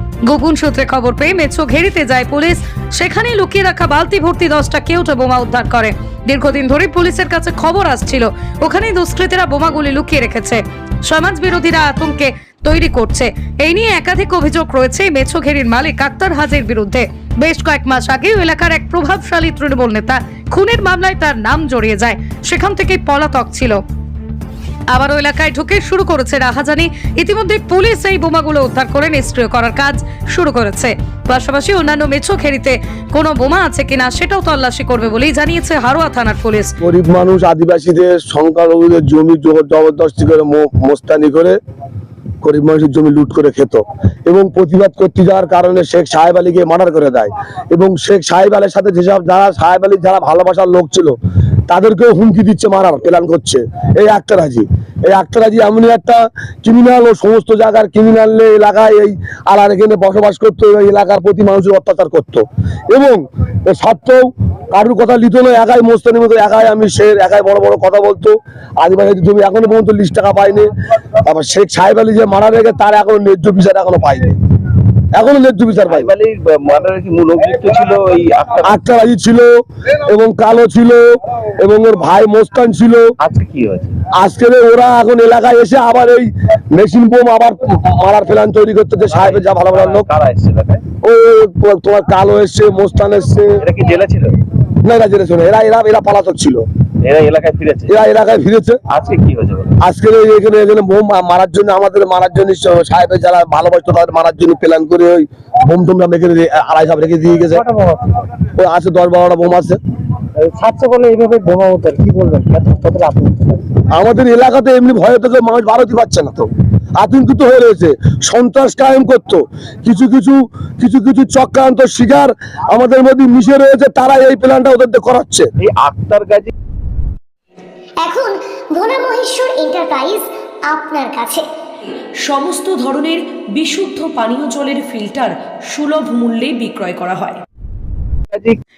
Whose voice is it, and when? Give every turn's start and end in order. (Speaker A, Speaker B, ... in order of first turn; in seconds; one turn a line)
Speaker A: 0.2-23.8
Speaker A: 24.9-36.7
Speaker B: 36.8-41.6
Speaker B: 42.4-51.2
Speaker B: 51.7-70.7
Speaker B: 71.2-74.4
Speaker B: 75.1-76.1
Speaker C: 75.9-78.8
Speaker B: 78.6-83.1
Speaker C: 83.2-84.0
Speaker B: 84.2-90.0
Speaker C: 89.1-90.8
Speaker B: 91.0-93.6
Speaker C: 93.6-94.3
Speaker B: 94.8-96.6
Speaker C: 97.0-98.0
Speaker B: 97.9-98.8
Speaker C: 98.9-99.7
Speaker B: 99.8-107.6
Speaker D: 107.5-108.1
Speaker B: 108.6-109.8
Speaker D: 110.4-113.6
Speaker B: 113.9-116.5
Speaker B: 117.0-125.5
Speaker C: 125.6-126.5
Speaker E: 128.0-131.5
Speaker F: 132.2-137.4
Speaker C: 138.3-138.6